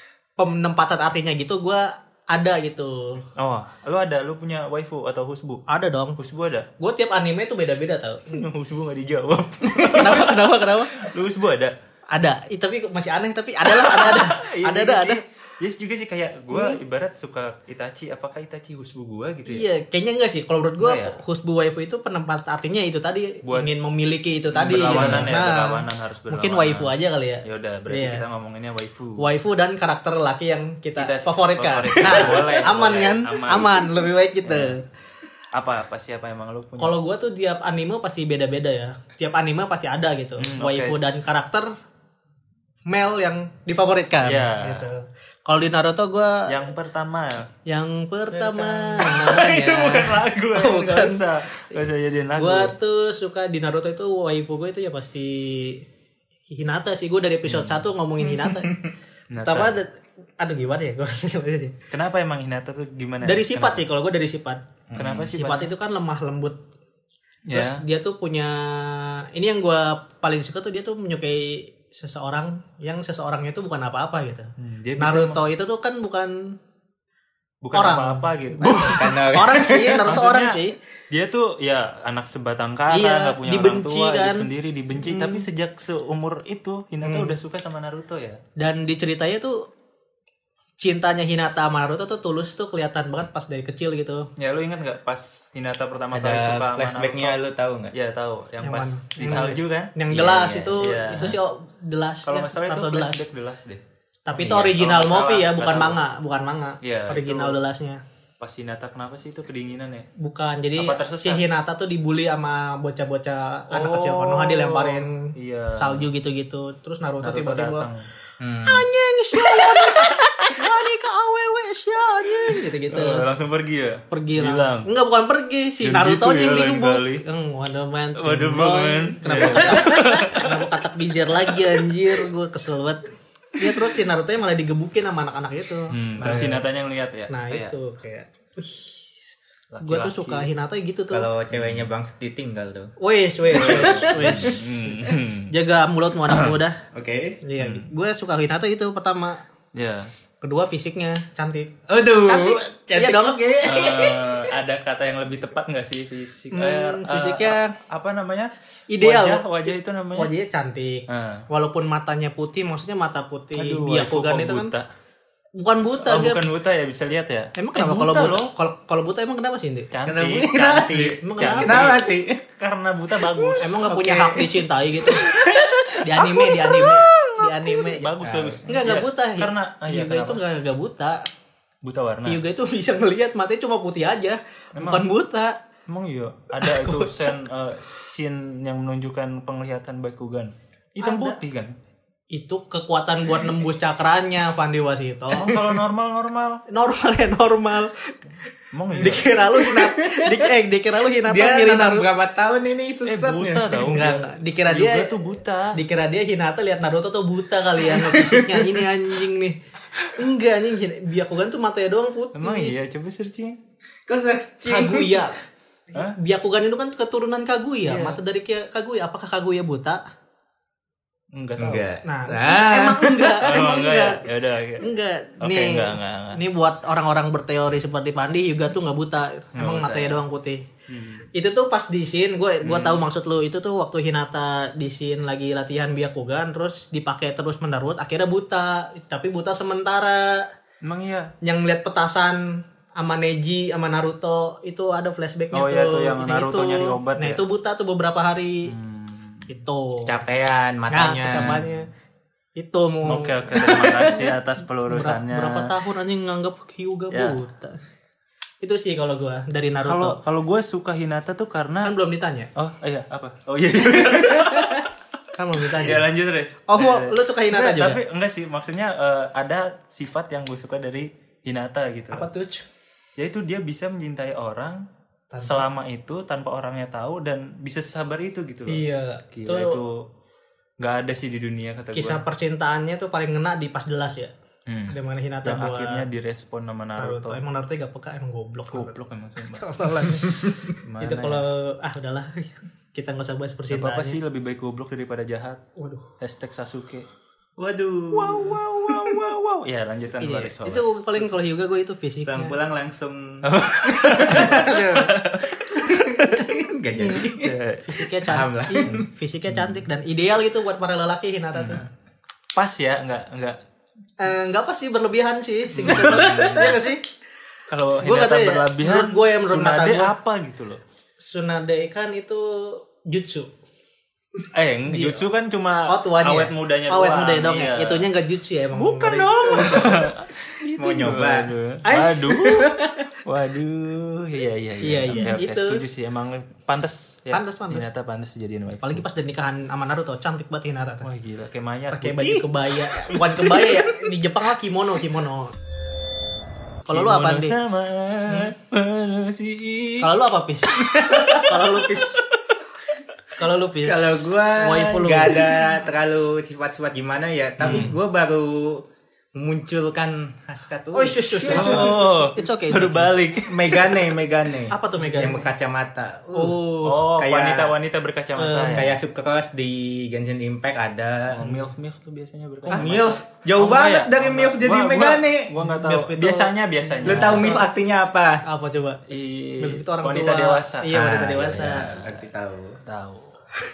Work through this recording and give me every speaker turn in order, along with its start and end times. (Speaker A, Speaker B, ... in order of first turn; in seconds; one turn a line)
Speaker A: 0.4-3.2
Speaker B: 3.4-5.6
Speaker A: 5.7-6.2
Speaker B: 6.2-6.7
Speaker A: 6.8-8.4
Speaker B: 8.3-11.7
Speaker A: 9.9-10.9
Speaker A: 12.1-15.2
Speaker B: 13.6-19.6
Speaker A: 16.5-16.8
Speaker A: 19.5-28.2
Speaker B: 20.8-21.2
Speaker B: 23.4-23.7
Speaker B: 24.5-29.2
Speaker C: 24.9-25.3
Speaker A: 29.2-34.8
Speaker B: 31.0-34.8
Speaker C: 32.1-32.6
Speaker B: 35.5-37.0
Speaker A: 36.8-41.7
Speaker B: 40.4-41.0
Speaker A: 42.9-46.5
Speaker B: 44.2-44.9
Speaker B: 46.5-47.5
Speaker A: 47.6-55.8
Speaker B: 48.8-52.7
Speaker A: 56.5-58.8
Speaker B: 57.5-57.8
Speaker C: 58.4-58.9
Speaker B: 59.3-59.8
Speaker A: 59.4-61.8
Speaker B: 61.9-63.8
Speaker A: 63.2-64.6
Speaker C: 64.9-65.3
Speaker B: 64.9-65.7
Speaker A: 65.3-66.6
Speaker B: 67.5-67.8
Speaker A: 67.5-76.6
Speaker B: 74.6-75.4
Speaker B: 77.6-79.2
Speaker A: 77.7-80.8
Speaker C: 78.9-80.1
Speaker B: 80.0-88.4
Speaker A: 82.9-84.5
Speaker A: 85.0-85.4
Speaker A: 87.0-87.3
Speaker A: 88.6-89.7
Speaker A: 90.8-94.3
Speaker B: 94.4-97.4
Speaker C: 96.1-97.9
Speaker B: 97.9-99.9
Speaker A: 98.6-103.2
Speaker C: 100.1-101.2
Speaker B: 100.8-101.4
Speaker B: 102.2-103.8
Speaker A: 104.2-108.0
Speaker C: 104.4-104.7
Speaker B: 104.5-106.0
Speaker B: 106.8-107.6
Speaker B: 108.4-110.1
Speaker A: 110.2-117.8
Speaker B: 110.7-111.4
Speaker B: 113.7-116.0
Speaker B: 117.2-118.0
Speaker C: 118.4-118.8
Speaker A: 118.6-123.3
Speaker B: 122.9-124.9
Speaker A: 124.1-136.6
Speaker B: 125.8-127.2
Speaker B: 128.2-130.7
Speaker B: 131.5-132.2
Speaker B: 135.9-137.7
Speaker A: 137.3-139.1
Speaker B: 139.7-140.5
Speaker A: 139.8-141.3
Speaker C: 141.1-142.9
Speaker B: 141.5-141.8
Speaker A: 143.0-144.8
Speaker C: 143.4-144.7
Speaker B: 143.5-145.5
Speaker A: 145.5-146.8
Speaker B: 146.3-146.6
Speaker C: 146.9-147.4
Speaker A: 147.4-149.4
Speaker B: 147.6-147.9
Speaker B: 149.7-150.1
Speaker A: 150.4-153.4
Speaker C: 151.9-154.5
Speaker B: 153.6-160.3
Speaker A: 156.5-157.8
Speaker A: 158.9-159.4
Speaker A: 160.1-164.7
Speaker B: 161.1-161.4
Speaker B: 163.6-164.9
Speaker A: 165.6-166.4
Speaker B: 166.0-168.5
Speaker A: 167.6-169.9
Speaker B: 169.9-172.0
Speaker C: 170.0-172.4
Speaker A: 170.9-172.0
Speaker B: 172.6-173.8
Speaker C: 173.3-177.7
Speaker A: 173.6-175.3
Speaker A: 176.0-178.1
Speaker B: 177.9-180.4
Speaker C: 178.2-178.7
Speaker A: 178.7-181.2
Speaker B: 181.8-182.4
Speaker A: 182.2-185.6
Speaker B: 184.8-185.1
Speaker B: 185.9-191.7
Speaker A: 186.6-187.3
Speaker A: 191.0-191.4
Speaker A: 192.3-195.6
Speaker B: 195.3-196.6
Speaker A: 196.7-198.2
Speaker B: 198.7-199.4
Speaker A: 198.9-202.1
Speaker C: 199.7-200.5
Speaker C: 201.2-203.8
Speaker B: 203.1-205.8
Speaker A: 203.8-205.1
Speaker A: 205.7-209.6
Speaker C: 208.0-208.8
Speaker A: 210.1-212.7
Speaker B: 212.3-213.6
Speaker C: 214.1-215.2
Speaker A: 214.7-215.4
Speaker A: 215.9-220.0
Speaker B: 217.8-218.2
Speaker B: 221.3-221.9
Speaker C: 221.6-223.7
Speaker A: 222.0-224.2
Speaker B: 223.4-224.9
Speaker A: 224.8-230.7
Speaker B: 225.4-226.4
Speaker B: 229.6-230.2
Speaker B: 230.9-231.3
Speaker A: 231.3-240.5
Speaker B: 232.6-233.0
Speaker B: 240.8-241.3
Speaker A: 241.4-248.7
Speaker B: 245.5-247.4
Speaker B: 248.7-249.5
Speaker A: 249.5-250.2
Speaker C: 250.1-251.7
Speaker A: 250.9-251.9
Speaker B: 251.4-251.7
Speaker A: 252.6-254.3
Speaker B: 253.0-255.7
Speaker A: 254.9-257.8
Speaker B: 257.1-257.4
Speaker A: 258.6-260.2
Speaker B: 259.8-261.9
Speaker A: 261.8-262.5
Speaker B: 262.5-264.9
Speaker C: 264.1-264.8
Speaker A: 265.3-266.1
Speaker B: 265.7-272.3
Speaker A: 266.7-268.0
Speaker A: 272.1-272.6
Speaker B: 273.2-274.8
Speaker A: 275.3-275.6
Speaker B: 275.4-280.1
Speaker A: 278.7-279.8
Speaker B: 280.8-282.2
Speaker A: 281.9-284.3
Speaker B: 284.7-287.4
Speaker A: 284.9-286.0
Speaker A: 287.0-294.2
Speaker B: 288.7-291.4
Speaker B: 293.7-295.6
Speaker A: 295.8-296.1
Speaker B: 296.2-297.1
Speaker C: 297.6-299.2
Speaker B: 298.1-301.0
Speaker A: 300.2-302.5
Speaker C: 302.2-304.9
Speaker B: 303.4-306.6
Speaker A: 304.2-305.2
Speaker C: 305.5-307.5
Speaker A: 306.9-311.9
Speaker B: 307.2-308.1
Speaker C: 308.2-309.1
Speaker B: 312.5-313.6
Speaker A: 314.2-317.0
Speaker B: 315.7-316.8
Speaker C: 315.9-316.4
Speaker B: 317.7-320.8
Speaker A: 318.0-320.1
Speaker A: 321.2-323.5
Speaker B: 324.5-328.1
Speaker A: 324.9-325.2
Speaker A: 325.9-330.1
Speaker B: 328.7-332.7
Speaker C: 330.7-331.5
Speaker A: 331.8-332.5
Speaker C: 332.4-333.0
Speaker B: 333.2-339.0
Speaker A: 334.8-335.8
Speaker A: 337.3-337.9
Speaker A: 338.8-341.1
Speaker B: 341.0-344.1
Speaker A: 341.9-345.5
Speaker A: 346.9-347.6
Speaker B: 346.9-350.1
Speaker A: 350.0-352.2
Speaker B: 350.8-352.2
Speaker C: 351.0-351.4
Speaker A: 353.3-355.6
Speaker C: 353.8-358.8
Speaker B: 357.6-357.9
Speaker C: 359.3-362.3
Speaker A: 360.9-363.1
Speaker B: 361.5-364.0
Speaker C: 363.4-366.6
Speaker A: 364.7-365.5
Speaker A: 366.3-367.1
Speaker B: 366.8-368.9
Speaker C: 367.1-367.7
Speaker A: 368.4-368.9
Speaker C: 368.7-371.4
Speaker B: 371.3-377.6
Speaker A: 372.6-373.1
Speaker C: 372.7-375.5
Speaker A: 375.6-377.7
Speaker C: 377.0-378.4
Speaker A: 378.4-379.0
Speaker B: 379.1-381.0
Speaker A: 379.6-381.9
Speaker C: 380.9-382.8
Speaker B: 381.6-382.2
Speaker B: 382.9-383.4